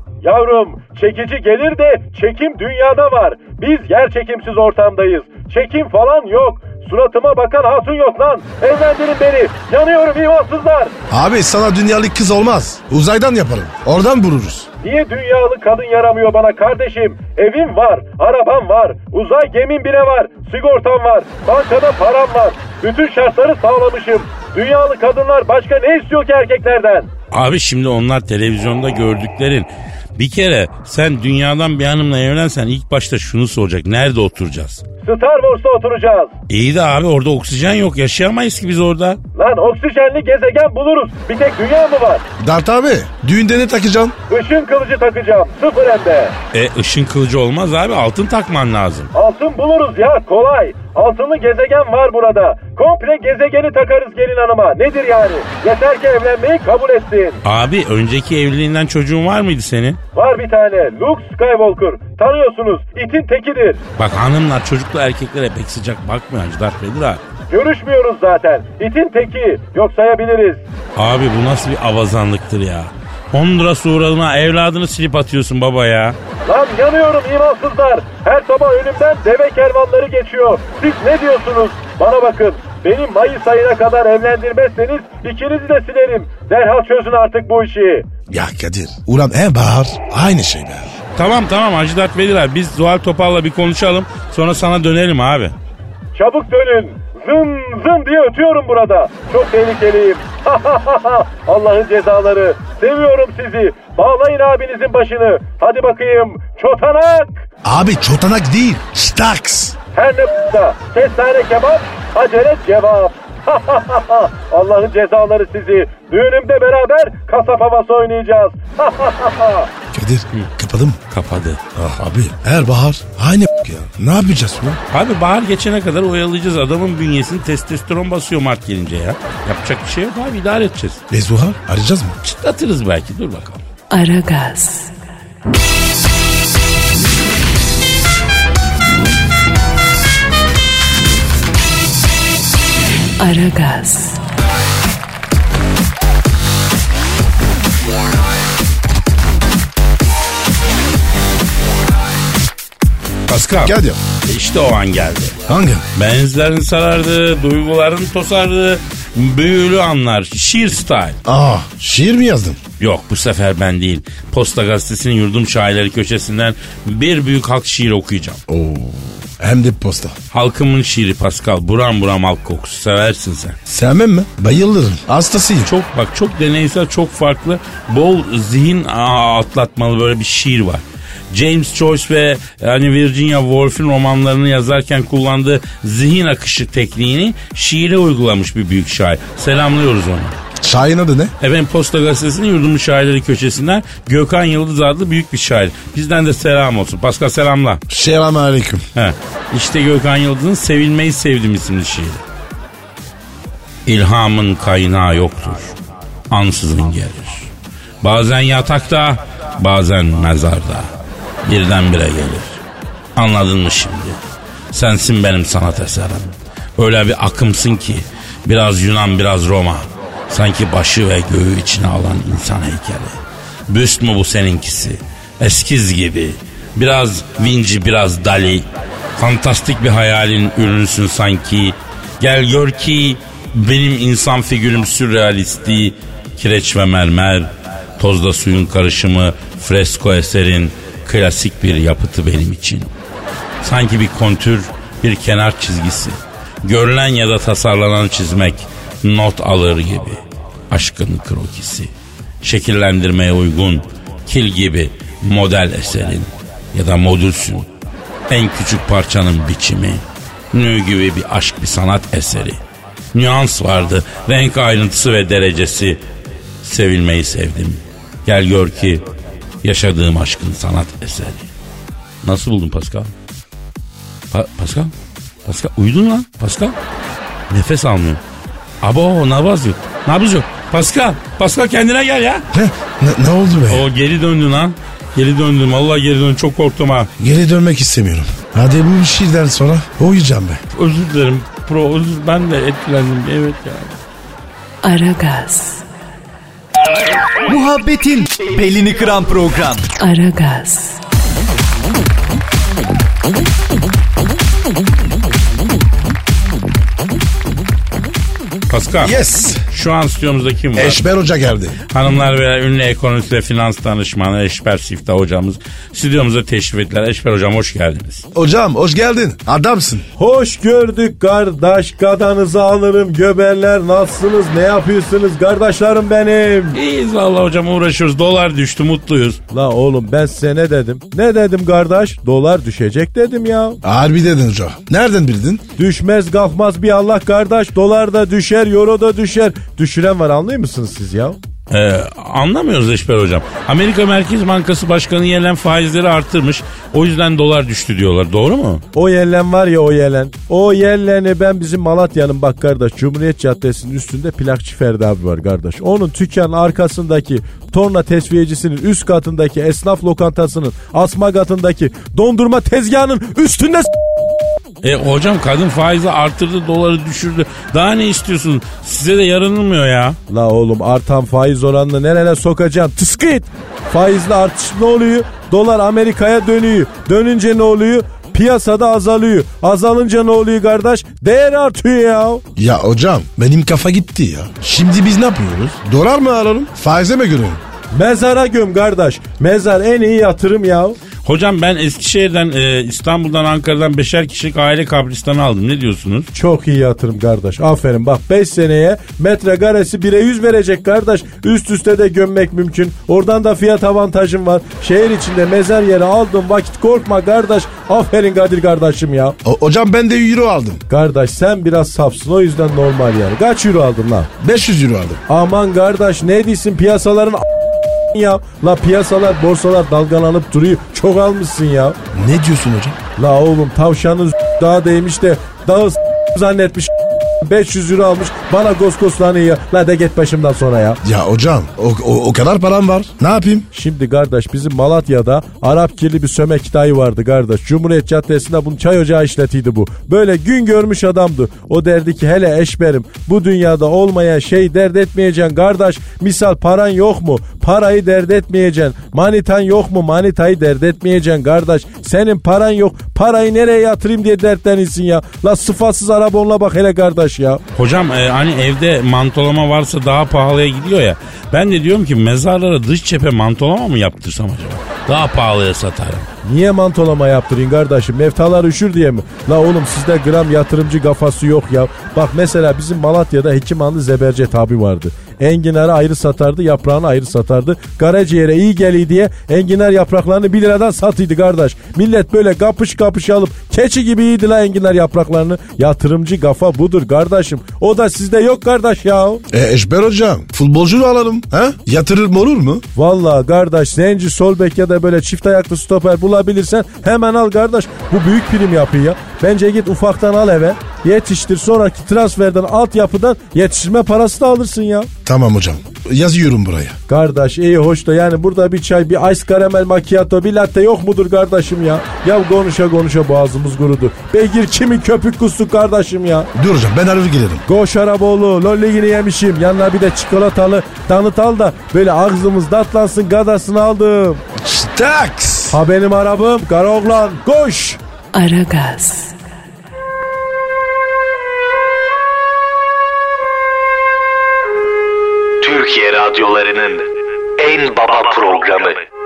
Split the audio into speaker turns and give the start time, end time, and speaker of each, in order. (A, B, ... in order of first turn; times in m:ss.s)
0:00.2-0:10.9 A
0:11.1-0:14.7 B
0:14.8-0:27.1 A
0:27.3-0:34.8 C
0:35.0-0:36.3 A
0:36.5-0:39.2 C
0:39.4-0:42.2 A
0:42.4-0:44.2 B
0:44.3-0:46.4 A
0:46.5-0:49.1 C
0:49.1-0:57.4 A
0:57.4-1:00.0 C
1:00.2-1:03.8 A
1:04.0-1:07.2 C
1:07.5-1:10.6 A
1:11.0-1:16.2 C
1:16.5-1:28.1 A
1:28.3-1:30.9 B
1:31.2-1:35.5 C
1:36.2-1:47.5 A
1:47.6-1:49.8 B
1:49.9-1:59.7 A
1:59.9-2:01.0 B
2:01.1-2:01.6 C
2:01.8-2:04.8 B
2:04.9-2:11.0 C
2:11.1-2:12.2 B
2:12.2-2:13.6 C
2:13.9-2:15.0 D
2:23.2-2:24.2 D
2:33.3-2:33.7 C
2:33.6-2:34.0 B
2:34.2-2:35.4 C
2:35.5-2:35.8 B
2:36.0-2:41.2 C
2:41.3-2:42.6 B
2:42.8-2:48.4 C
2:48.5-2:50.2 B
2:50.3-2:53.6 C
2:53.7-2:55.7 B
2:55.6-3:10.4 C
3:10.6-3:11.3 B
3:11.4-3:17.8 C
3:17.9-3:18.8 B
3:19.0-3:22.2 C
3:23.9-3:25.8 C
3:26.3-3:27.5 C
3:28.0-3:30.9 C
3:31.4-3:32.6 C
3:33.2-3:34.2 C
3:34.7-3:43.2 C
3:43.7-3:48.6 C
3:49.2-4:02.9 C
4:03.6-4:11.9 C
4:12.4-4:17.7 C
4:18.3-4:22.6 C
4:23.1-4:26.0 C
4:26.6-4:29.0 C
4:29.6-4:31.5 C
4:32.2-4:33.1 C
4:34.3-4:34.9 C
4:35.4-4:36.8 C
4:37.5-4:38.2 C
4:38.8-4:42.5 C
4:42.5-4:43.8 B
4:43.7-4:47.1 C
4:47.2-4:50.6 B
4:50.7-4:54.0 C
4:54.8-4:55.9 D
4:57.5-4:59.9 E
5:00.0-5:01.0 D
5:08.7-5:09.2 C
5:09.0-5:09.6 B
5:09.7-5:11.0 C
5:10.8-5:11.8 B
5:11.9-5:18.2 C
5:18.4-5:20.1 B
5:20.2-5:26.8 F
5:26.7-5:29.4 C
5:29.5-5:33.8 F
5:33.8-5:35.6 B
5:35.8-5:41.4 F
5:41.7-5:48.8 C
5:48.9-6:03.9 F
6:04.8-6:10.2 C
6:10.3-6:22.4 F
6:22.6-6:27.6 B
6:27.9-6:31.0 F
6:31.2-6:36.3 C
6:36.3-6:49.4 F
6:49.4-6:50.8 B
6:50.9-6:54.3 F
6:54.4-6:55.2 B
6:55.3-6:57.4 F
6:58.1-7:02.0 F
7:02.1-7:03.0 B
7:03.2-7:11.0 F
7:11.0-7:13.7 B
7:13.7-7:37.6 F
7:37.8-7:46.3 C
7:46.4-8:09.4 F
8:09.5-8:12.8 B
8:13.0-8:25.1 F
8:25.2-8:27.0 B
8:27.1-8:36.5 F
8:36.6-8:37.6 B
8:37.7-8:44.4 F
8:44.6-8:45.8 B
8:45.7-8:48.0 F
8:48.3-8:49.4 D
8:55.6-8:57.1 G
8:57.6-8:59.0 G